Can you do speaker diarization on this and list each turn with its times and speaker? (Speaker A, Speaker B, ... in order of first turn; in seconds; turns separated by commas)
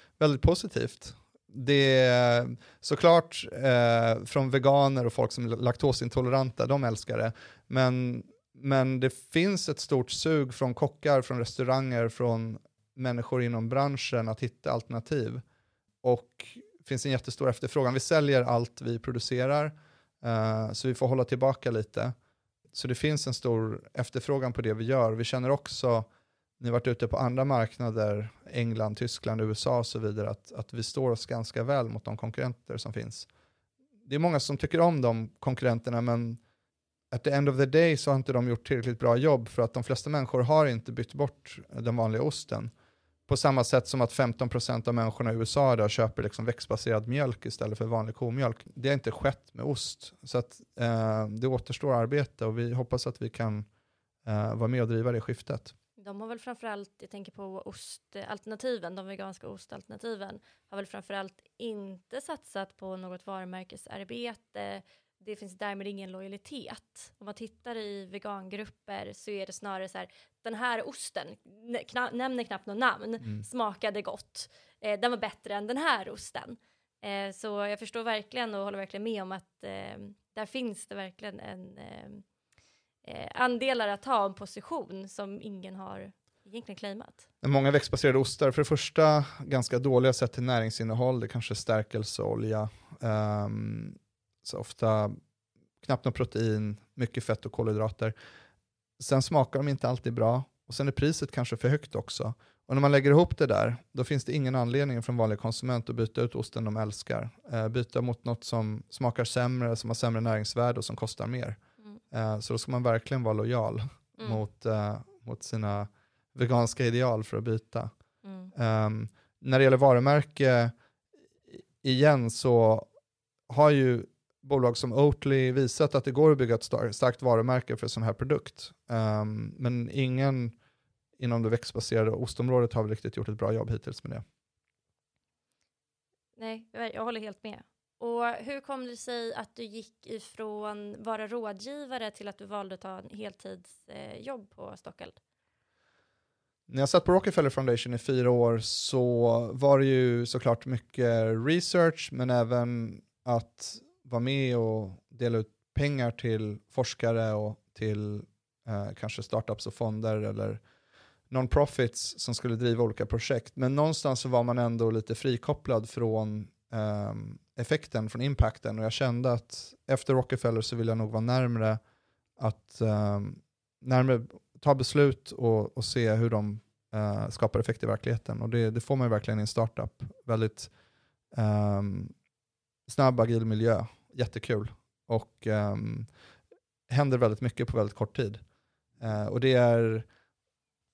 Speaker A: 0.2-15.4, Speaker A: 16.0-22.1, Speaker A: 22.7-26.1, Speaker A: 26.6-33.3, Speaker A: 34.1-36.4, Speaker A: 37.1-42.7, Speaker A: 43.3-53.7, Speaker A: 54.2-55.7, Speaker B: 56.0-82.2, Speaker A: 73.2-73.5, Speaker B: 83.0-87.2, Speaker A: 87.4-95.2, Speaker A: 95.8-98.2, Speaker A: 99.0-111.6, Speaker A: 112.1-117.9, Speaker B: 118.2-118.5, Speaker A: 118.5-120.7, Speaker A: 121.5-122.9, Speaker A: 123.5-130.6, Speaker A: 131.2-134.2, Speaker B: 136.4-145.2, Speaker A: 146.7-160.6, Speaker A: 161.3-171.8, Speaker A: 172.4-180.7, Speaker A: 181.3-182.1, Speaker A: 182.9-186.1, Speaker A: 186.9-188.4, Speaker A: 189.0-190.1